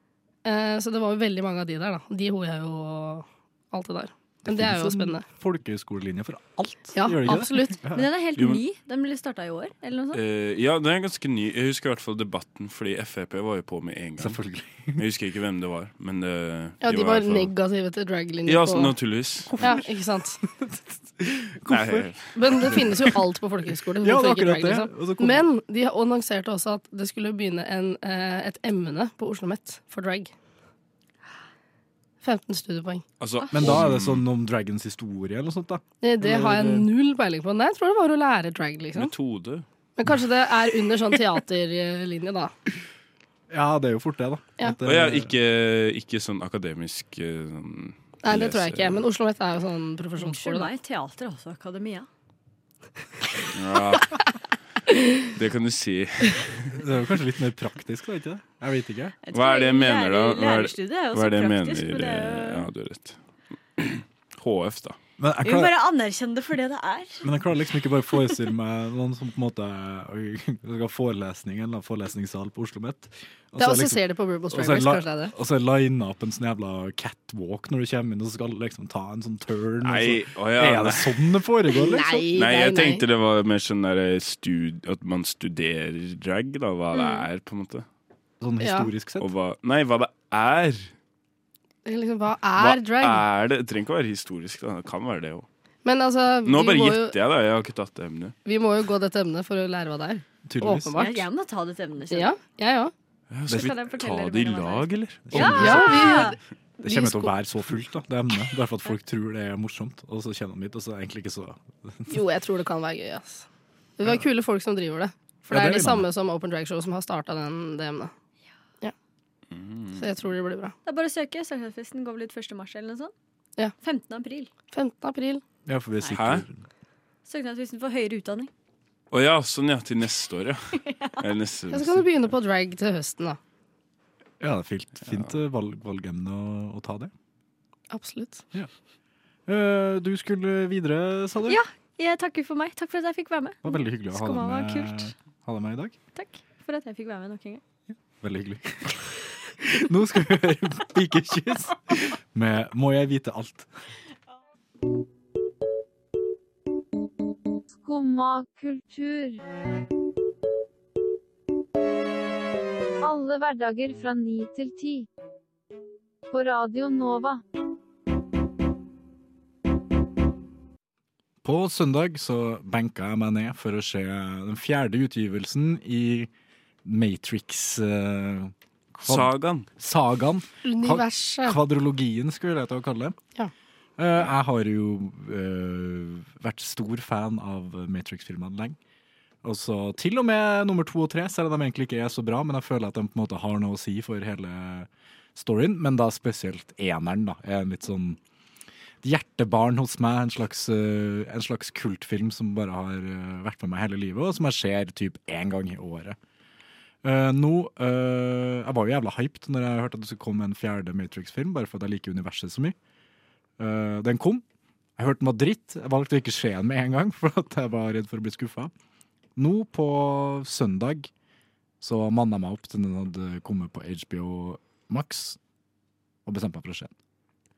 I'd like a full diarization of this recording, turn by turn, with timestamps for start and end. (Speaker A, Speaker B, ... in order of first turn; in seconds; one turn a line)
Speaker A: 0.4-5.2
Speaker B: 4.5-8.1
Speaker A: 7.0-7.8
Speaker C: 7.9-10.2
Speaker D: 8.4-8.6
Speaker D: 10.1-14.4
Speaker B: 14.2-15.0
Speaker D: 14.9-17.5
Speaker A: 16.8-18.9
Speaker D: 18.4-19.5
Speaker B: 19.5-23.1
Speaker A: 19.6-20.4
Speaker D: 21.7-22.8
Speaker A: 22.3-30.3
Speaker B: 24.0-25.5
Speaker A: 32.2-33.0
Speaker D: 33.2-34.2
Speaker C: 33.4-33.6
Speaker B: 33.5-36.9
Speaker A: 36.0-39.1
Speaker D: 38.9-39.6
Speaker A: 40.0-42.5
Speaker B: 43.5-45.3
Speaker D: 44.8-49.0
Speaker A: 48.2-50.7
Speaker C: 50.2-52.1
Speaker D: 53.5-54.2
Speaker D: 55.2-56.8
Speaker B: 56.7-59.1
Speaker C: 59.2-62.7
Speaker D: 59.3-63.2
Speaker D: 63.8-65.0
Speaker B: 65.2-65.7
Speaker C: 65.4-67.2
Speaker B: 67.2-74.0
Speaker A: 73.6-75.3
Speaker B: 74.5-82.3
Speaker D: 79.8-81.4
Speaker A: 81.7-83.0
Speaker D: 82.3-87.8
Speaker C: 86.9-87.3
Speaker B: 88.4-89.3
Speaker A: 88.6-88.9
Speaker D: 89.2-90.9
Speaker A: 91.8-93.2
Speaker D: 92.6-95.5
Speaker A: 95.8-97.1
Speaker D: 96.4-98.3
Speaker A: 98.5-101.2
Speaker B: 100.5-101.1
Speaker C: 101.0-102.3
Speaker A: 102.1-102.9
Speaker D: 103.3-105.9
Speaker C: 103.5-106.4
Speaker B: 105.3-106.2
Speaker A: 105.3-106.3
Speaker B: 106.8-112.2
Speaker A: 112.1-113.5
Speaker A: 114.0-118.1
Speaker B: 115.5-116.1
Speaker D: 119.5-120.0
Speaker A: 120.0-120.7
Speaker C: 120.8-123.1
Speaker C: 123.8-124.5
Speaker A: 124.7-125.4
Speaker B: 125.7-126.6
Speaker D: 126.1-126.4
Speaker C: 127.2-128.5
Speaker D: 129.1-132.1
Speaker C: 130.8-131.2
Speaker A: 131.7-133.4
Speaker B: 134.4-137.1
Speaker A: 137.9-138.4
Speaker B: 139.5-141.6
Speaker C: 141.5-145.1
Speaker B: 143.6-146.0
Speaker C: 146.1-147.6
Speaker B: 148.2-153.7
Speaker E: 157.8-159.4
Speaker E: 163.0-165.1
Speaker E: 166.3-167.4
Speaker B: 171.4-176.3
Speaker B: 176.8-183.2
Speaker D: 179.0-179.7
Speaker A: 180.7-181.6
Speaker B: 184.0-188.8
Speaker B: 189.4-198.2
Speaker B: 199.0-206.2
Speaker B: 207.0-212.8
Speaker B: 213.6-214.4
Speaker B: 215.0-218.7
Speaker B: 219.3-221.1
Speaker B: 221.8-225.4
Speaker B: 226.2-226.9